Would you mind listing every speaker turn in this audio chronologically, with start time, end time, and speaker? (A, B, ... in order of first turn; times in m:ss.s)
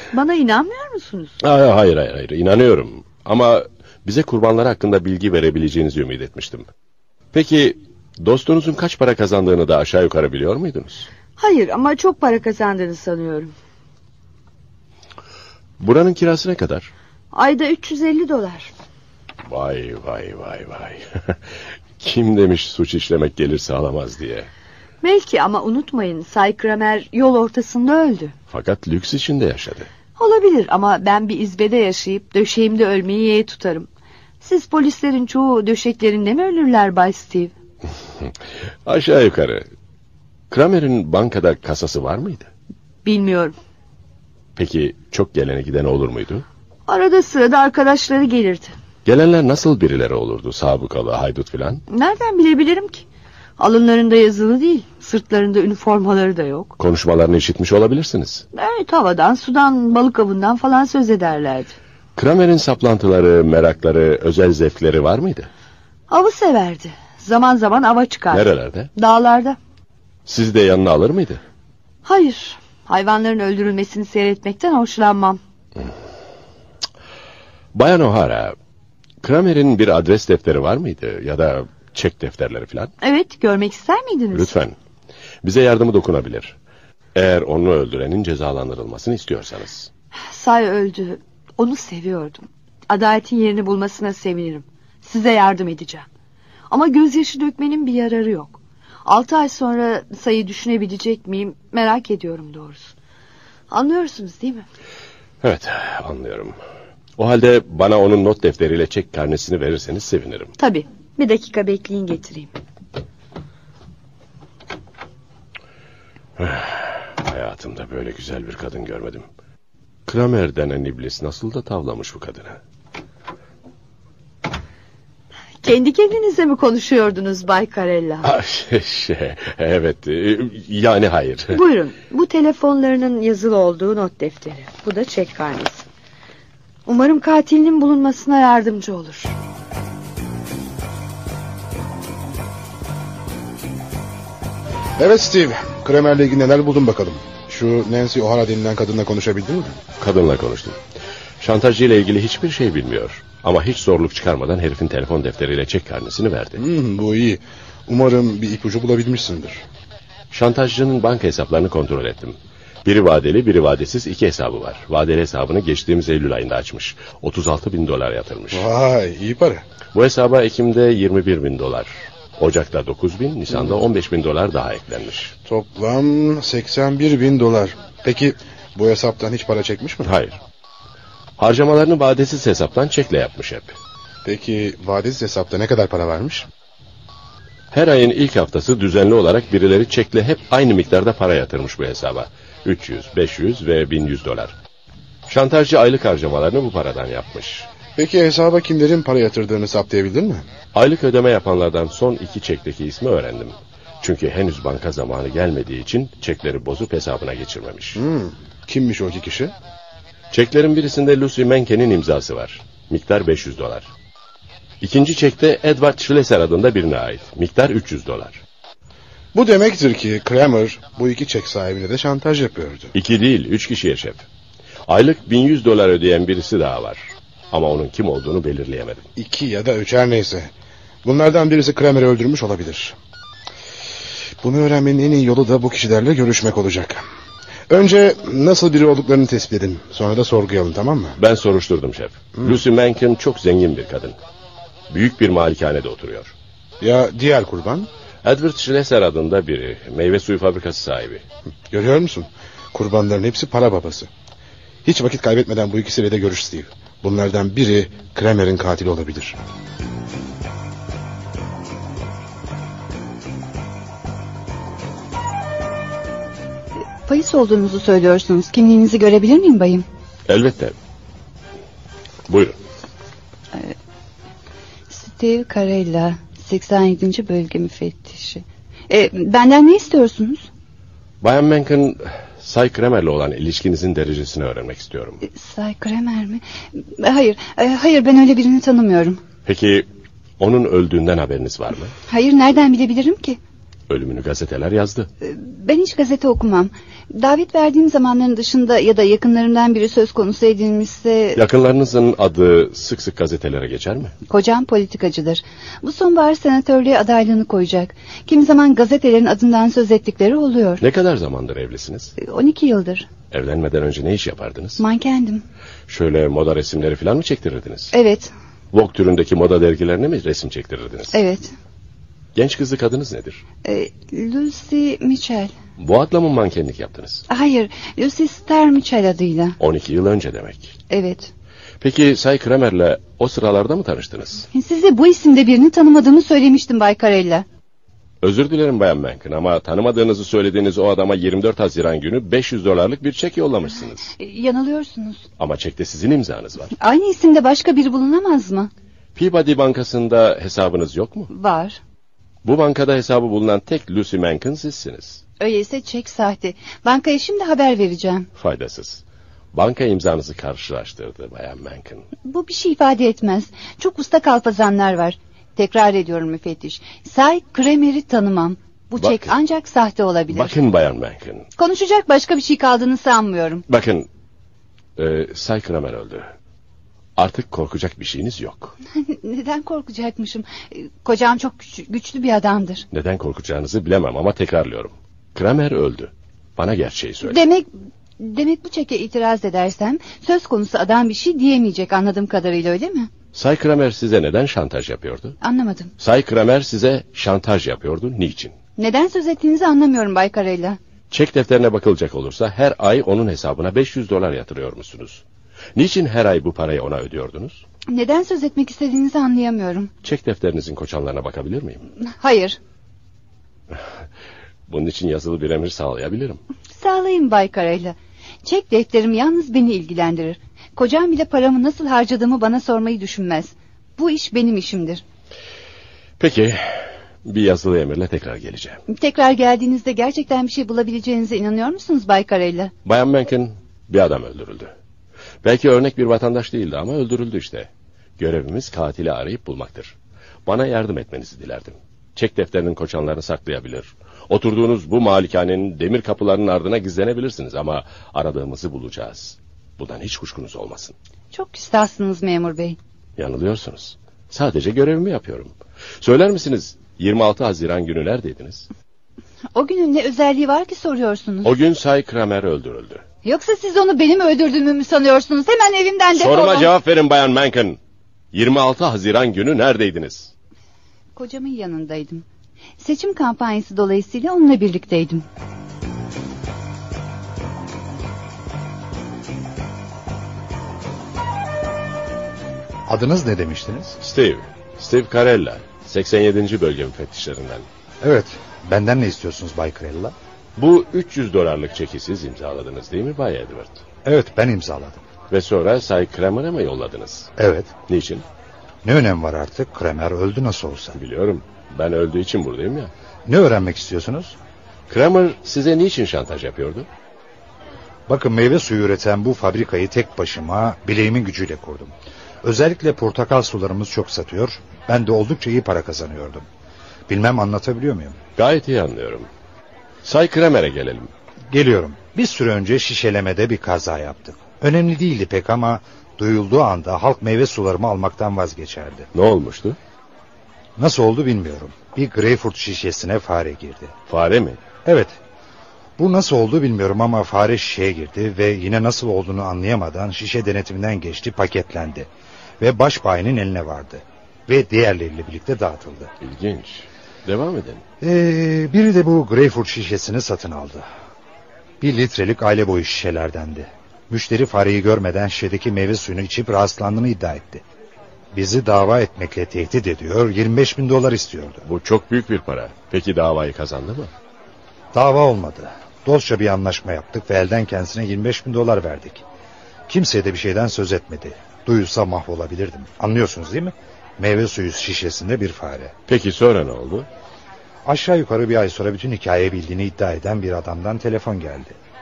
0:00.1-0:01.4 A
0:01.4-0:06.7 B
0:07.3-0:11.1 B
0:11.4-0:13.5 A
0:15.8-0:16.9 B
0:17.3-0:18.7 A
0:19.5-0:21.4 B
0:22.0-0:24.5 B
0:25.0-0:28.3 A
0:28.5-0:29.9 B
0:30.2-0:33.9 A
0:34.4-0:37.5 A
0:38.9-0:39.7 B
0:40.5-0:42.5 B
0:43.0-0:43.6 A
0:44.6-0:46.4 B
0:46.9-0:48.7 A
0:49.0-0:51.8 B
0:51.9-0:53.0 A
0:53.6-0:56.7 A
0:56.8-0:58.4 B
0:58.5-1:01.7 A
1:02.2-1:05.5 B
1:06.1-1:09.6 A
1:08.3-1:08.9 B
1:10.3-1:11.4 B
1:12.0-1:15.4 A
1:17.7-1:18.6 B
1:19.2-1:22.9 B
1:23.0-1:24.5 A
1:24.3-1:24.8 B
1:25.4-1:26.6 B
1:27.2-1:29.9 B
1:30.2-1:36.1 A
1:36.7-1:42.9 A
1:43.7-1:44.6 A
1:45.4-1:46.6 B
1:47.2-1:50.5 B
1:50.6-1:52.5 A
1:56.4-1:59.2 B
2:00.1-2:02.6 B
2:05.6-2:08.3 A
2:08.2-2:11.6 B
2:11.5-2:15.8 A
2:16.9-2:19.3 A
2:25.0-2:29.8 C
2:30.0-2:30.8 B
2:31.4-2:36.6 B
2:36.6-2:39.6 C
2:40.3-2:48.7 B
2:48.5-2:49.6 C
2:49.9-2:55.3 B
2:55.4-3:00.1 C
3:00.0-3:00.4 B
3:01.4-3:03.7 B
3:04.2-3:06.5 C
3:07.7-3:14.5 B
3:15.3-3:17.7 B
3:18.0-3:20.4 C
3:20.7-3:28.0 B
3:28.0-3:29.5 C
3:30.3-3:33.9 B
3:34.8-3:38.4 B
3:39.3-3:42.9 C
3:42.9-3:44.2 B
3:44.9-3:49.1 B
3:49.2-3:50.5 C
3:51.0-3:53.0 C
3:54.4-3:57.0 C
3:57.7-4:01.2 C
4:01.2-4:04.2 B
4:04.9-4:06.3 B
4:06.8-4:07.9 C
4:08.2-4:11.2 B
4:11.7-4:14.1 C
4:14.8-4:19.4 C
4:27.1-4:29.9 D
4:30.3-4:30.8 B
4:32.3-4:32.6 B
4:34.9-4:40.5 D
4:41.2-4:45.2 B
4:45.2-4:49.2 D
4:49.5-4:49.9 B
4:50.4-4:52.0 B
4:52.1-4:53.4 D
4:53.9-4:55.1 B
4:55.2-5:01.4 D
5:01.4-5:04.1 B
5:04.3-5:10.8 D
5:10.8-5:12.1 B
5:12.2-5:13.1 D
5:13.3-5:14.8 B
5:14.8-5:15.4 D
5:15.9-5:17.9 B
5:17.9-5:18.3 D
5:18.7-5:21.2 B
5:21.1-5:21.5 D
5:22.4-5:23.4 B
5:23.6-5:25.5 D
5:25.8-5:27.2 B
5:27.3-5:29.6 D
5:29.6-5:30.7 B
5:30.9-5:31.3 D
5:31.8-5:34.5 B
5:34.5-5:37.4 D
5:38.2-5:44.1 B
5:44.2-5:45.2 D
5:45.4-5:46.7 B
5:46.8-5:48.7 D
5:49.2-5:51.3 B
5:51.3-5:51.8 D
5:52.4-5:55.2 B
5:55.4-5:58.3 D
5:58.4-5:59.0 B
5:59.5-6:02.1 B
6:02.2-6:10.6 D
6:09.0-6:09.3 B
6:10.3-6:11.5 B
6:11.6-6:13.6 D
6:13.7-6:14.1 B
6:15.0-6:16.3 B
6:17.2-6:18.8 B
6:19.0-6:22.8 D
6:22.9-6:27.4 B
6:27.2-6:33.1 D
6:33.3-6:35.4 B
6:35.4-6:35.9 D
6:36.0-6:38.6 B
6:38.8-6:40.8 D
6:41.1-6:45.2 B
6:45.8-6:47.6 B
6:47.9-6:49.9 D
6:50.0-6:51.8 B
6:52.0-6:52.6 D
6:54.7-6:56.4 B
6:56.8-7:05.0 D
7:06.2-7:08.8 B
7:08.9-7:12.7 D
7:12.8-7:14.7 B
7:15.4-7:20.0 B
7:20.5-7:31.0 B
7:31.3-7:32.8 D
7:33.2-7:38.7 B
7:39.6-7:41.5 D
7:41.4-7:43.0 B
7:43.2-7:46.7 D
7:46.1-7:47.8 B
7:48.3-7:50.3 B
7:51.2-7:52.2 D
7:52.8-7:55.3 D
8:02.9-8:04.0 E
8:04.0-8:07.7 B
8:08.0-8:10.2 E
8:10.6-8:13.8 B
8:14.0-8:15.0 E
8:15.3-8:17.3 B
8:17.4-8:17.8 E
8:17.9-8:18.2 B
8:18.8-8:21.0 E
8:21.0-8:22.9 B
8:23.3-8:24.4 E
8:24.9-8:26.9 B
8:28.1-8:36.5 E
8:37.1-8:38.2 E
8:38.4-8:39.3 B
8:40.0-8:41.1 B
8:41.5-8:49.1 E
8:49.1-8:49.8 B
8:50.8-8:53.9 E
8:54.1-8:54.6 B
8:54.8-8:55.2 E
8:56.0-9:02.1 E
9:02.6-9:06.1 E
9:06.2-9:07.8 B
9:08.0-9:10.9 E
9:11.8-9:17.6 E
9:18.3-9:21.6 E
9:21.7-9:24.1 B
9:24.9-9:29.2 E
9:29.9-9:35.9 E
9:36.1-9:37.1 B
9:37.8-9:41.8 E